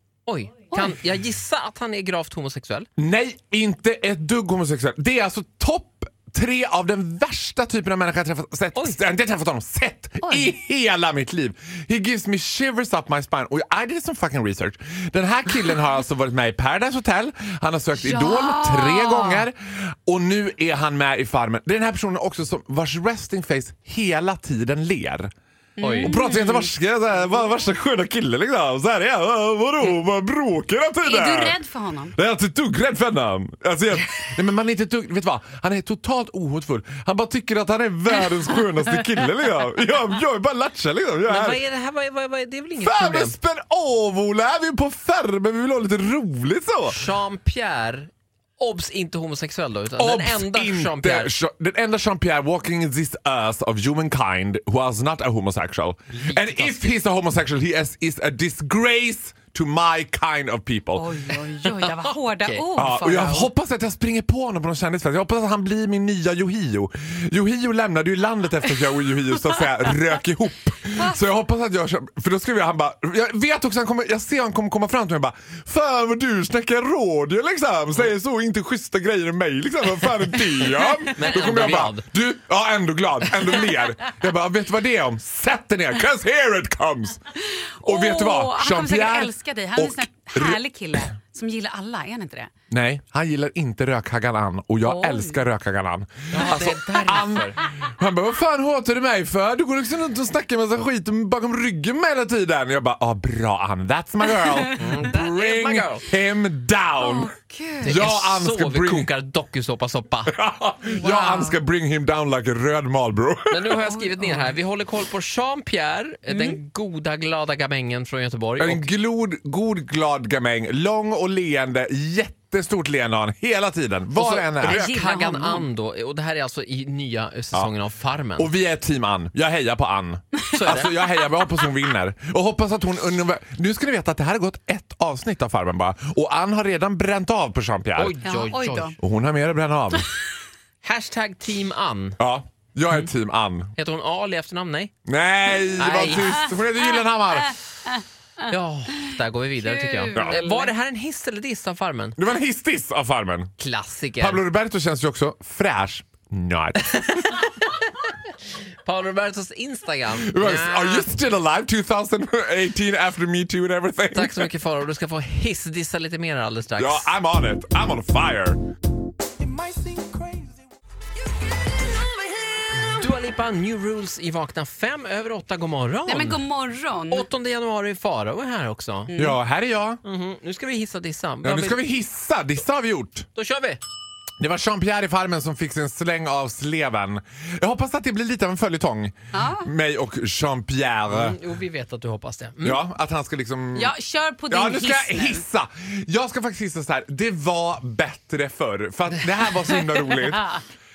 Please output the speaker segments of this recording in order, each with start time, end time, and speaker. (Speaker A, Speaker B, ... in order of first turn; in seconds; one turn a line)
Speaker A: 0.3-2.9
Speaker B: 3.0-25.3
Speaker C: 10.2-10.5
Speaker C: 18.0-19.5
Speaker C: 25.8-26.7
Speaker A: 25.8-26.1
Speaker B: 26.0-31.6
Speaker C: 31.0-32.1
Speaker B: 32.1-41.6
Speaker A: 41.3-43.4
Speaker B: 42.8-47.1
Speaker A: 46.9-51.3
Speaker B: 50.0-61.2
Speaker A: 56.1-56.8
Speaker C: 61.0-63.5
Speaker A: 61.8-62.6
Speaker B: 62.8-87.2
Speaker A: 81.1-82.1
Speaker C: 87.8-92.5
Speaker B: 87.8-91.1
Speaker B: 92.7-107.3
Speaker C: 94.8-95.4
Speaker A: 96.3-97.6
Speaker A: 104.8-106.0
Speaker C: 107.0-108.0
Speaker B: 107.8-109.1
Speaker A: 107.8-110.4
Speaker B: 110.3-113.9
Speaker C: 110.9-111.6
Speaker A: 113.5-118.9
Speaker C: 113.9-114.3
Speaker C: 116.3-116.6
Speaker B: 118.6-124.9
Speaker A: 124.1-128.5
Speaker C: 124.6-125.7
Speaker B: 128.4-138.2
Speaker A: 130.5-130.9
Speaker A: 138.0-138.9
Speaker C: 138.2-139.0
Speaker B: 139.0-140.1
Speaker A: 140.8-142.2
Speaker B: 142.2-143.7
Speaker A: 143.8-144.9
Speaker B: 145.1-147.6
Speaker A: 145.8-146.3
Speaker A: 148.5-152.2
Speaker C: 149.6-150.7
Speaker B: 152.2-153.5
Speaker A: 153.6-154.4
Speaker B: 154.2-157.3
Speaker A: 157.0-158.1
Speaker A: 158.8-161.1
Speaker B: 160.1-164.5
Speaker A: 164.1-167.1
Speaker B: 166.8-168.6
Speaker A: 172.7-176.4
Speaker C: 176.1-177.3
Speaker A: 177.1-179.1
Speaker C: 179.1-179.4
Speaker B: 179.2-180.0
Speaker A: 180.0-181.8
Speaker B: 181.4-183.3
Speaker A: 183.3-183.8
Speaker B: 184.4-191.4
Speaker C: 189.3-189.7
Speaker A: 191.1-192.8
Speaker B: 192.6-193.9
Speaker C: 193.8-195.4
Speaker B: 194.5-200.6